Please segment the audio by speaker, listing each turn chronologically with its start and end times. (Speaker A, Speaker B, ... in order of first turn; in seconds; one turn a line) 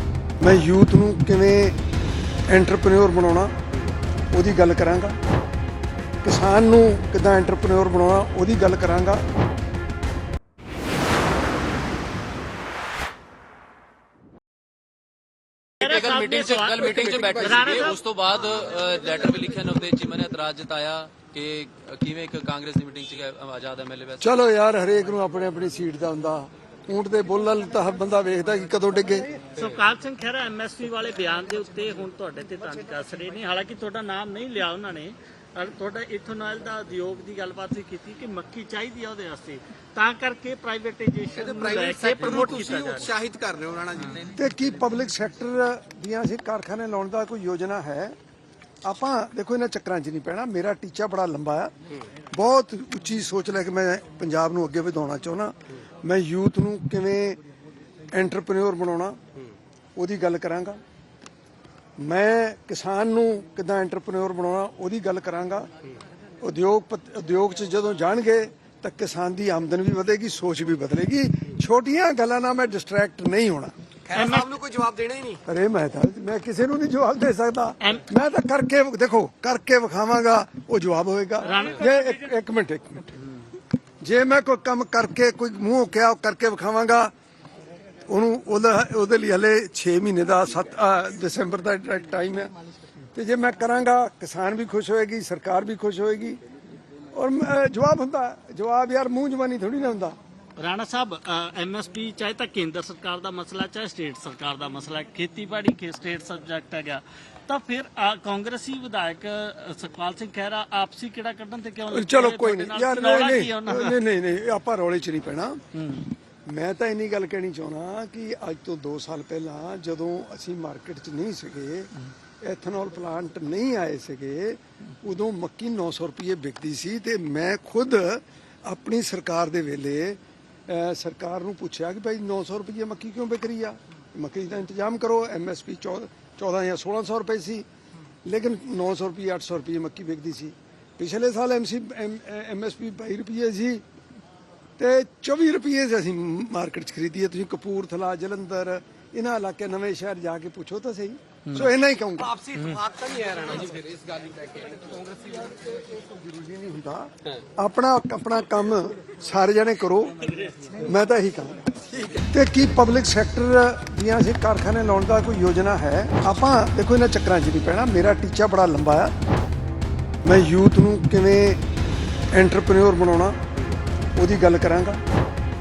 Speaker A: 0.4-1.8
Speaker A: 2.5-3.6
Speaker A: 4.3-5.2
Speaker A: 6.2-9.2
Speaker B: 15.8-18.0
Speaker C: 15.8-24.4
Speaker D: 16.8-18.0
Speaker A: 24.2-29.3
Speaker B: 29.6-43.1
Speaker D: 41.3-44.3
Speaker A: 44.3-48.2
Speaker A: 48.9-51.7
Speaker A: 52.3-57.4
Speaker A: 58.1-59.2
Speaker A: 60.0-60.8
Speaker A: 62.0-65.7
Speaker A: 66.4-73.7
Speaker D: 74.1-75.4
Speaker B: 74.1-74.5
Speaker A: 75.5-83.2
Speaker B: 77.8-78.1
Speaker B: 81.4-82.1
Speaker A: 84.0-87.1
Speaker A: 88.1-92.5
Speaker A: 93.2-96.4
Speaker A: 97.1-100.2
Speaker B: 100.6-114.0
Speaker A: 111.9-115.6
Speaker B: 115.7-116.1
Speaker A: 116.5-121.9
Speaker A: 122.4-137.7
Speaker A: 138.2-143.8
Speaker A: 144.8-152.4
Speaker D: 152.2-155.8
Speaker A: 156.0-169.1
Speaker A: 170.2-171.6
Speaker A: 172.3-173.4
Speaker A: 174.2-175.0